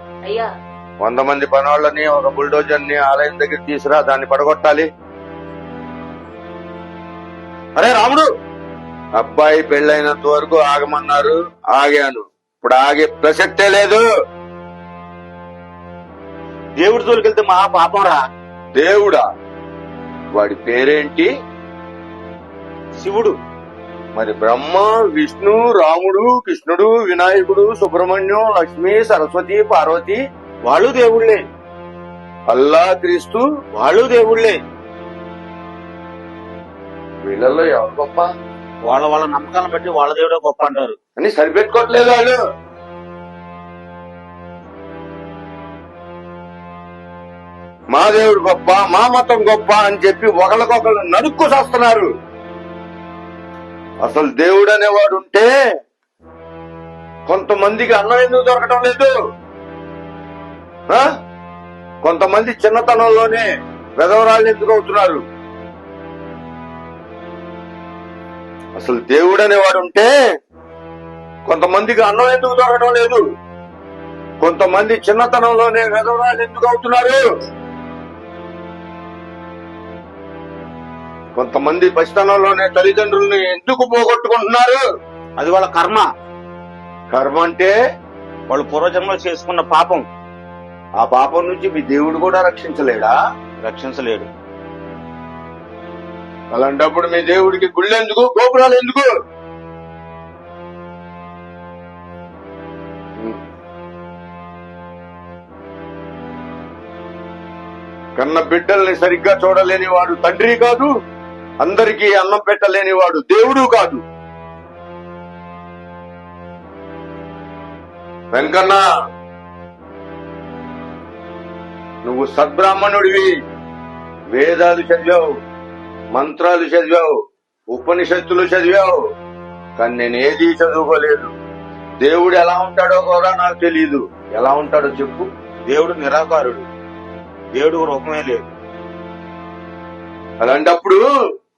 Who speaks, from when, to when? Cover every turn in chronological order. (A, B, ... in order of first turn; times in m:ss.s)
0:01.0-0:04.9 A
0:07.8-0:08.3 B
0:09.2-0:14.0 A
0:16.8-0:18.2 B
0:18.8-0:19.2 A
0:20.4-0:21.3 A
0:23.0-0:23.4 B
0:24.2-0:30.2 A
0:30.7-0:31.4 B
0:32.5-0:33.4 A
0:33.8-0:34.6 B
0:37.2-0:38.3 A
0:38.8-0:41.0 B
0:41.2-0:42.4 A
0:47.9-0:52.1 A
0:54.0-0:55.5 A
0:57.3-0:59.1 A
1:02.0-1:03.5 A
1:04.0-1:05.2 A
1:08.8-1:10.1 A
1:11.5-1:13.2 A
1:14.4-1:17.2 A
1:21.4-1:24.8 A
1:25.4-1:26.1 B
1:27.1-1:27.7 A
1:28.5-1:30.0 B
1:31.0-1:33.2 A
1:33.6-1:34.3 B
1:36.5-1:39.1 A
1:48.2-1:50.9 A
1:51.6-1:54.0 A
1:58.3-1:58.8 A
2:02.0-2:03.3 A
2:04.3-2:05.2 A
2:06.1-2:07.1 A
2:07.7-2:09.0 A
2:09.8-2:11.3 A
2:12.0-2:15.3 A
2:15.7-2:16.6 B
2:17.5-2:18.5 B
2:20.4-2:21.0 A